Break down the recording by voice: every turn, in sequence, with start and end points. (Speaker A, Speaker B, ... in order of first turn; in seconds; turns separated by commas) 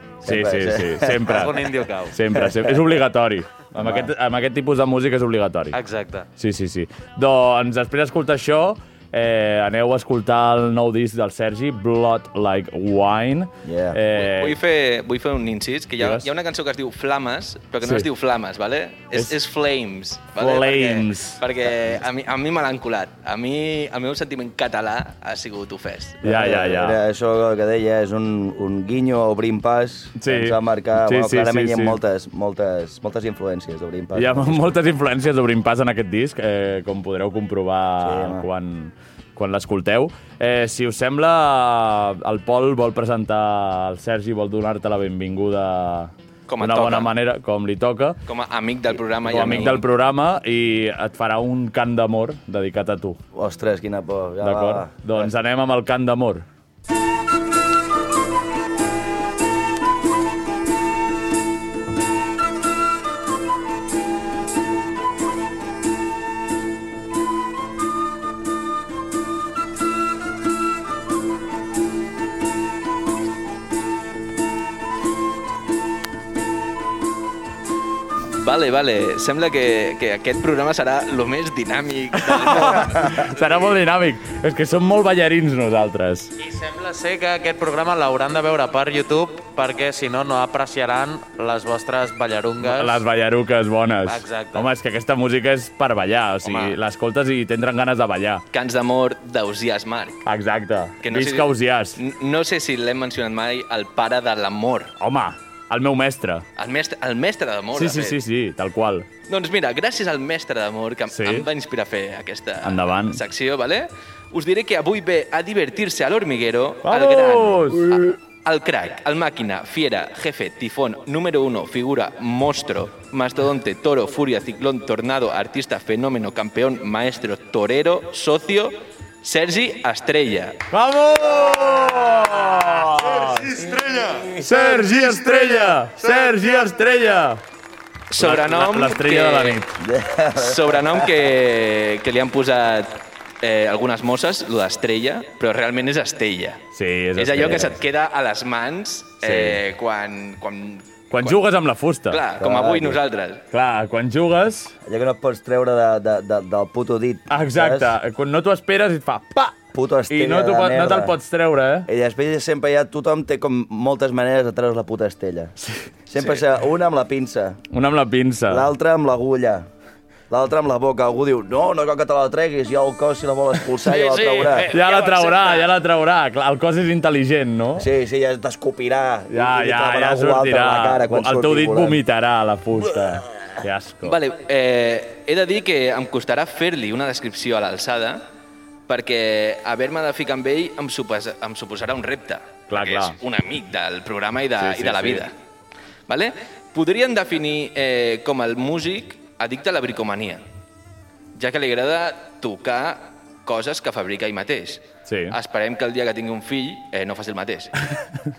Speaker A: 0.2-1.5, Speaker B: 0.2-1.6, Speaker C: 1.3-2.1, Speaker B: 2.1-5.8, Speaker A: 2.3-2.8, Speaker A: 3.8-4.1, Speaker C: 5.7-6.3, Speaker B: 6.4-14.6, Speaker A: 13.6-14.0, Speaker D: 14.2-26.2, Speaker B: 16.0-16.3, Speaker B: 20.4-21.4, Speaker B: 26.2-27.0, Speaker A: 26.2-34.7, Speaker B: 30.2-32.0, Speaker B: 34.1-48.2, Speaker A: 38.0-38.5, Speaker D: 46.5-47.1, Speaker D: 48.3-49.9, Speaker B: 49.3-53.2, Speaker A: 53.3-55.3, Speaker B: 54.4-56.5, Speaker D: 78.4-83.8, Speaker B: 82.2-86.3, Speaker C: 86.4-93.0, Speaker B: 92.6-98.4, Speaker C: 94.1-94.7, Speaker D: 98.5-100.2, Speaker B: 100.3-102.0, Speaker D: 101.0-104.9, Speaker B: 105.0-106.5, Speaker D: 106.6-108.2, Speaker B: 107.7-109.1, Speaker D: 109.3-130.6, Speaker B: 111.1-111.5, Speaker B: 112.6-113.2, Speaker B: 116.9-118.2, Speaker B: 130.7-133.7, Speaker A: 133.2-135.7, Speaker B: 134.3-137.4, Speaker D: 138.1-139.6, Speaker B: 138.2-139.8, Speaker A: 139.8-141.1, Speaker D: 140.4-146.6, Speaker B: 146.8-147.8, Speaker D: 147.2-151.5, Speaker A: 147.4-147.7, Speaker B: 149.2-149.6, Speaker B: 151.1-152.2, Speaker D: 152.1-153.4, Speaker A: 152.4-153.0, Speaker B: 153.5-154.7, Speaker A: 154.9-157.9, Speaker B: 157.3-159.6, Speaker A: 159.7-161.2, Speaker B: 160.1-161.9, Speaker A: 161.9-165.6, Speaker A: 166.1-167.6, Speaker B: 167.7-168.7, Speaker A: 168.5-169.7, Speaker A: 170.3-174.7, Speaker C: 173.9-175.6, Speaker B: 174.7-177.9, Speaker A: 177.8-182.0, Speaker B: 179.3-184.2, Speaker D: 184.0-188.2, Speaker D: 188.9-195.3, Speaker B: 192.7-193.2, Speaker B: 194.6-195.3, Speaker D: 196.1-200.4, Speaker D: 201.3-207.7, Speaker B: 205.1-205.4